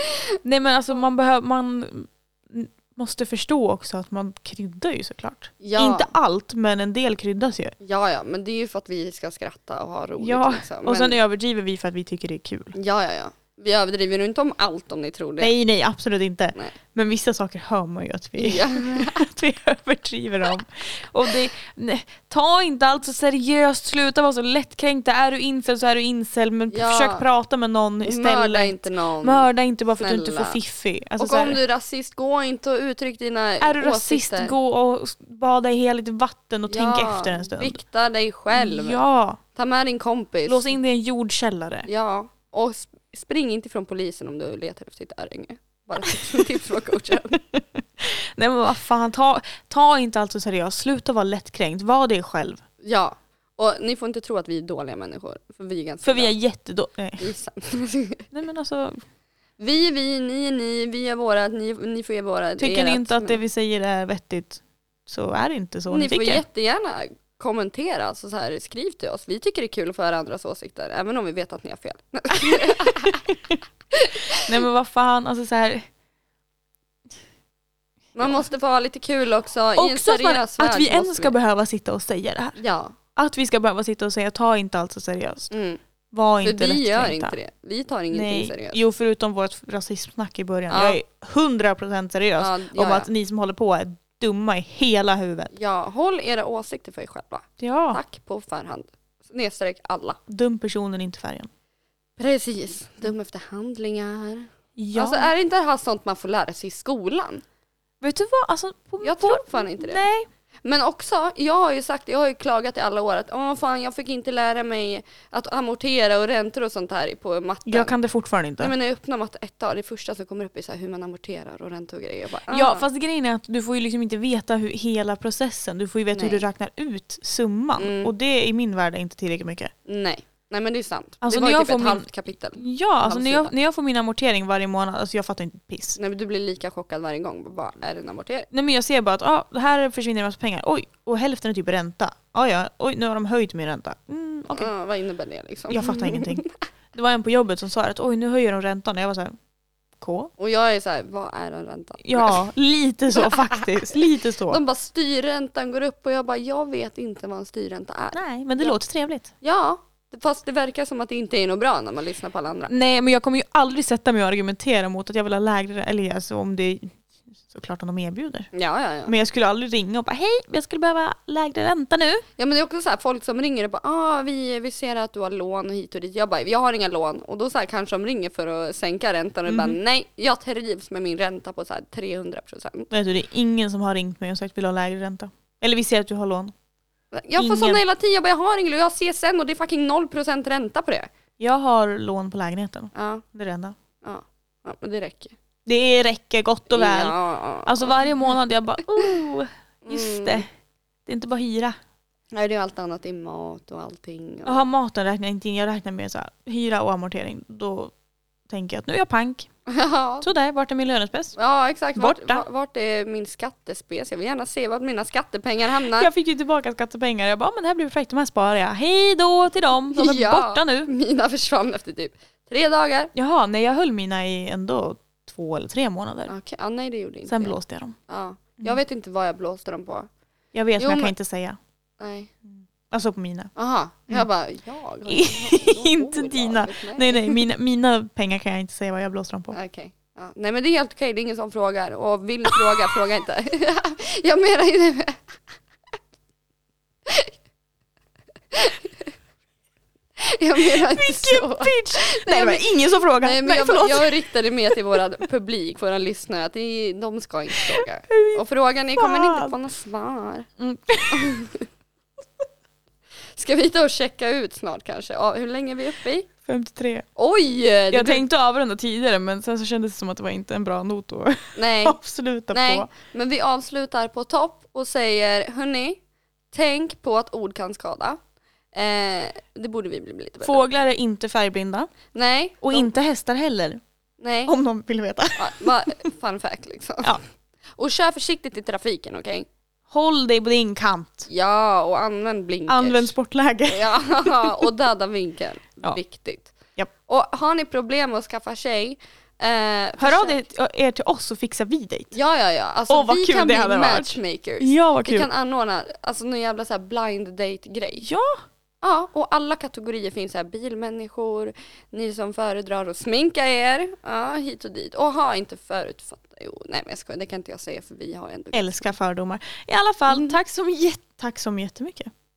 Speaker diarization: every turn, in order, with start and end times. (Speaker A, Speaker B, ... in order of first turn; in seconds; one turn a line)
Speaker A: 0.4-7.7
Speaker B: 5.6-6.2
Speaker B: 7.8-11.2
Speaker A: 10.2-12.8
Speaker B: 12.8-15.5
Speaker A: 15.4-31.6
Speaker B: 18.4-19.2
Speaker B: 26.7-27.2
Speaker B: 28.0-30.6
Speaker B: 31.2-34.5
Speaker A: 33.6-37.8
Speaker B: 36.7-39.0
Speaker A: 38.5-39.4
Speaker B: 39.5-40.7
Speaker A: 40.5-41.9
Speaker B: 41.9-47.4
Speaker A: 46.1-46.4
Speaker A: 47.5-52.6
Speaker B: 52.8-56.4
Speaker A: 56.0-57.3
Speaker B: 57.2-58.3
Speaker A: 58.3-59.0
Speaker B: 59.6-63.4
Speaker A: 62.6-66.4
Speaker B: 65.9-73.3
Speaker A: 72.5-73.6
Speaker B: 73.9-74.5
Speaker A: 74.4-75.9
Speaker B: 78.2-81.4
Speaker A: 78.2-78.4
Speaker A: 79.8-82.6
Speaker B: 82.6-83.0
Speaker A: 83.2-85.5
Speaker B: 85.5-85.8
Speaker A: 86.1-87.4
Speaker B: 86.4-88.8
Speaker A: 88.1-95.5
Speaker B: 90.7-91.0
Speaker B: 92.4-93.1
Speaker B: 95.5-100.2
Speaker A: 97.6-98.0
Speaker A: 100.3-101.5
Speaker B: 102.2-107.4
Speaker A: 104.8-105.3
Speaker A: 108.0-110.3
Speaker B: 109.0-110.0
Speaker B: 110.6-118.0
Speaker A: 117.7-118.7
Speaker B: 118.6-122.9
Speaker A: 122.5-129.7
Speaker B: 126.1-126.4
Speaker B: 127.8-128.1
Speaker B: 129.9-133.5
Speaker A: 131.2-132.1
Speaker A: 132.6-136.0
Speaker B: 136.0-138.5
Speaker A: 138.5-144.7
Speaker B: 144.5-146.5
Speaker A: 145.7-149.3
Speaker A: 150.0-150.3
Speaker B: 150.4-152.4
Speaker A: 152.0-154.6
Speaker B: 153.2-158.8
Speaker A: 158.1-159.3
Speaker B: 159.4-162.7
Speaker A: 162.7-167.0
Speaker A: 167.5-168.5
Speaker B: 168.5-169.1
Speaker A: 169.1-172.2
Speaker B: 172.4-182.9
Speaker A: 179.5-179.8
Speaker A: 182.9-186.5
Speaker B: 187.1-191.1
Speaker A: 187.4-187.8
Speaker A: 191.4-193.8
Speaker B: 192.9-193.2
Speaker B: 194.0-195.3
Speaker A: 195.7-200.5
Speaker B: 196.7-198.0
Speaker B: 199.8-200.4
Speaker A: 201.1-201.8
Speaker B: 202.3-204.6
Speaker A: 204.4-207.9
Speaker A: 208.5-209.5
Speaker B: 209.7-210.3
Speaker A: 210.2-211.4
Speaker B: 211.4-216.1
Speaker A: 211.9-212.5
Speaker A: 215.9-220.9
Speaker B: 219.9-223.1
Speaker A: 223.2-226.3
Speaker B: 226.3-227.6
Speaker A: 227.3-228.0
Speaker B: 228.1-230.1
Speaker A: 230.5-231.6
Speaker B: 230.8-231.2
Speaker B: 232.0-232.3
Speaker A: 232.5-233.5
Speaker B: 233.6-237.4
Speaker A: 235.1-239.6
Speaker B: 239.5-245.2
Speaker B: 247.1-247.3
Speaker B: 248.5-249.1
Speaker B: 250.2-252.7
Speaker A: 250.6-254.2
Speaker B: 253.2-260.5
Speaker A: 257.5-258.4
Speaker A: 259.0-259.6
Speaker A: 260.6-261.4
Speaker B: 261.1-261.6
Speaker B: 263.4-266.3
Speaker A: 266.5-267.1
Speaker B: 267.2-268.2
Speaker A: 267.9-272.9
Speaker B: 271.6-272.0
Speaker B: 272.5-276.0
Speaker B: 276.5-278.2
Speaker B: 278.7-280.7
Speaker A: 280.4-281.9
Speaker B: 282.1-282.9
Speaker A: 282.6-283.8
Speaker B: 284.2-284.6
Speaker A: 284.5-285.7
Speaker B: 285.4-287.2
Speaker B: 287.8-289.5
Speaker A: 289.9-291.3
Speaker B: 291.3-293.1
Speaker A: 292.7-294.7
Speaker B: 293.7-296.5
Speaker B: 297.1-300.4
Speaker A: 300.0-302.1
Speaker B: 302.1-308.1
Speaker A: 302.9-305.3
Speaker A: 308.0-308.4
Speaker B: 308.8-318.9
Speaker A: 318.5-322.1
Speaker B: 320.1-320.4